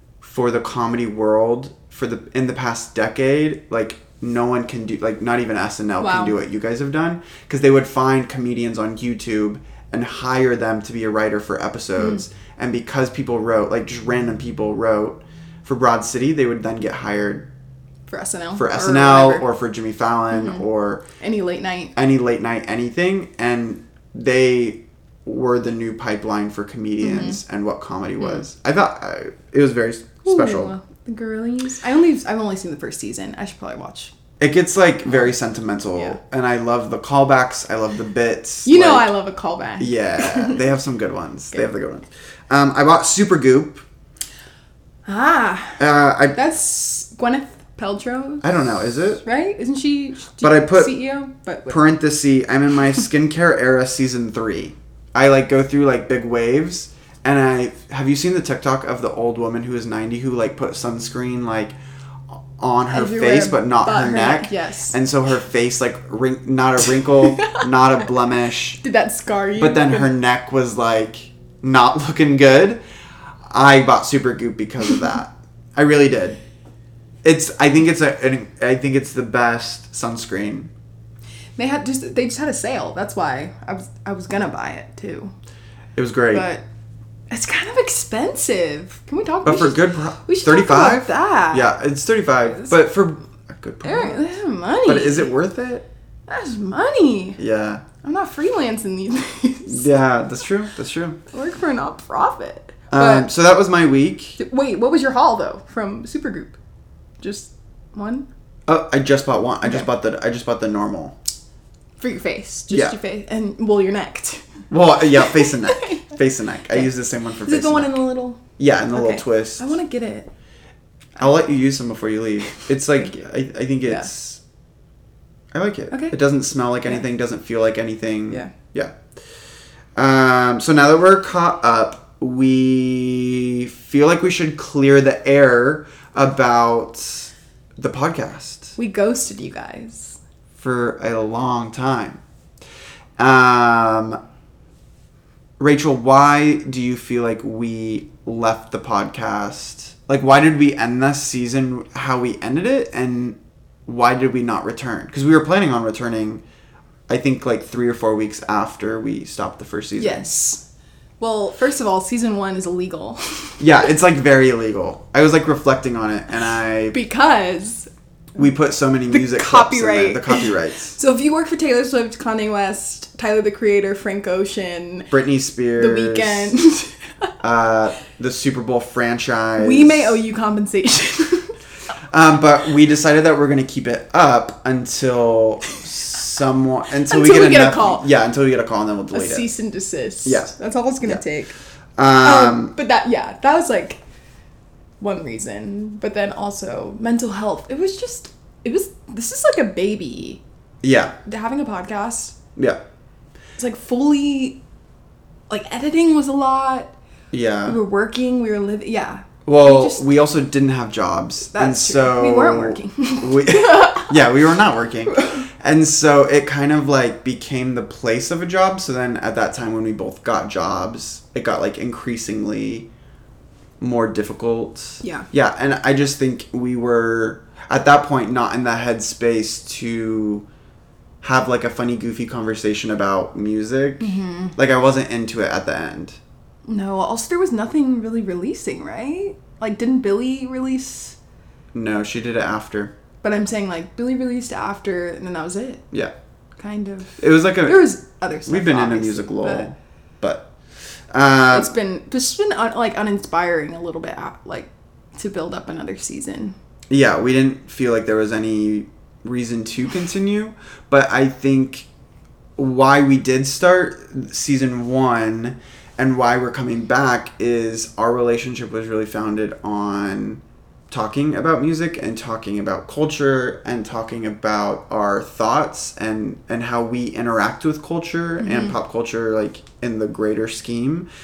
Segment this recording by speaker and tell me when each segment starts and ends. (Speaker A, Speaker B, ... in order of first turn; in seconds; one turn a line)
Speaker A: 0.2-17.5
Speaker B: 6.0-6.4
Speaker B: 18.1-19.4
Speaker A: 18.6-21.0
Speaker B: 20.3-20.6
Speaker B: 21.2-21.9
Speaker A: 21.9-30.7
Speaker B: 27.0-27.4
Speaker B: 30.2-34.1
Speaker A: 34.4-39.1
Speaker B: 38.6-40.6
Speaker A: 39.8-43.8
Speaker B: 45.1-48.5
Speaker A: 45.8-46.4
Speaker A: 48.4-49.2
Speaker B: 49.2-51.8
Speaker A: 50.4-51.0
Speaker A: 51.7-61.8
Speaker A: 62.4-68.8
Speaker B: 62.9-65.0
Speaker B: 67.2-67.6
Speaker B: 68.8-70.1
Speaker A: 69.6-72.8
Speaker A: 73.5-76.4
Speaker A: 77.2-80.7
Speaker B: 81.6-85.3
Speaker A: 86.0-86.5
Speaker B: 86.3-86.6
Speaker B: 87.3-91.7
Speaker A: 89.5-94.3
Speaker B: 93.8-95.3
Speaker A: 94.8-95.9
Speaker B: 96.3-97.4
Speaker A: 97.4-97.8
Speaker B: 98.0-99.8
Speaker A: 99.7-101.2
Speaker B: 101.3-103.3
Speaker A: 102.9-104.4
Speaker B: 104.4-106.6
Speaker B: 107.2-108.3
Speaker A: 108.7-111.2
Speaker B: 112.0-114.5
Speaker A: 112.7-113.0
Speaker A: 114.7-118.0
Speaker B: 115.1-116.0
Speaker B: 117.4-118.4
Speaker A: 118.6-119.7
Speaker B: 118.9-120.3
Speaker A: 121.2-124.4
Speaker B: 122.6-123.3
Speaker A: 125.5-128.9
Speaker B: 125.9-126.2
Speaker A: 130.0-138.8
Speaker B: 138.8-140.2
Speaker A: 140.6-142.2
Speaker A: 143.2-144.2
Speaker A: 145.6-156.4
Speaker A: 157.1-160.3
Speaker B: 160.0-160.6
Speaker B: 161.2-163.6
Speaker A: 163.6-167.0
Speaker B: 166.9-167.9
Speaker A: 168.3-170.9
Speaker B: 169.1-175.1
Speaker A: 175.1-176.6
Speaker B: 175.8-177.3
Speaker A: 177.4-180.2
Speaker B: 179.6-181.6
Speaker A: 182.1-189.5
Speaker B: 187.1-188.1
Speaker B: 189.1-191.6
Speaker A: 190.2-191.2
Speaker A: 192.0-192.8
Speaker B: 192.2-194.0
Speaker B: 195.0-200.4
Speaker A: 200.8-201.2
Speaker B: 201.2-202.4
Speaker A: 202.6-202.8
Speaker B: 203.6-204.6
Speaker B: 205.5-206.9
Speaker A: 207.3-207.8
Speaker B: 207.7-210.0
Speaker A: 209.5-222.9
Speaker B: 211.5-214.2
Speaker B: 215.1-215.4
Speaker A: 223.8-230.4
Speaker B: 225.0-225.3
Speaker A: 231.2-236.2
Speaker B: 234.0-234.6
Speaker B: 236.7-241.2
Speaker A: 241.7-242.9
Speaker B: 243.2-245.8
Speaker B: 246.6-249.7
Speaker A: 247.2-247.9
Speaker A: 248.5-250.5
Speaker A: 251.1-251.7
Speaker B: 251.5-256.6
Speaker A: 256.9-261.9
Speaker A: 262.6-281.1
Speaker B: 278.4-278.8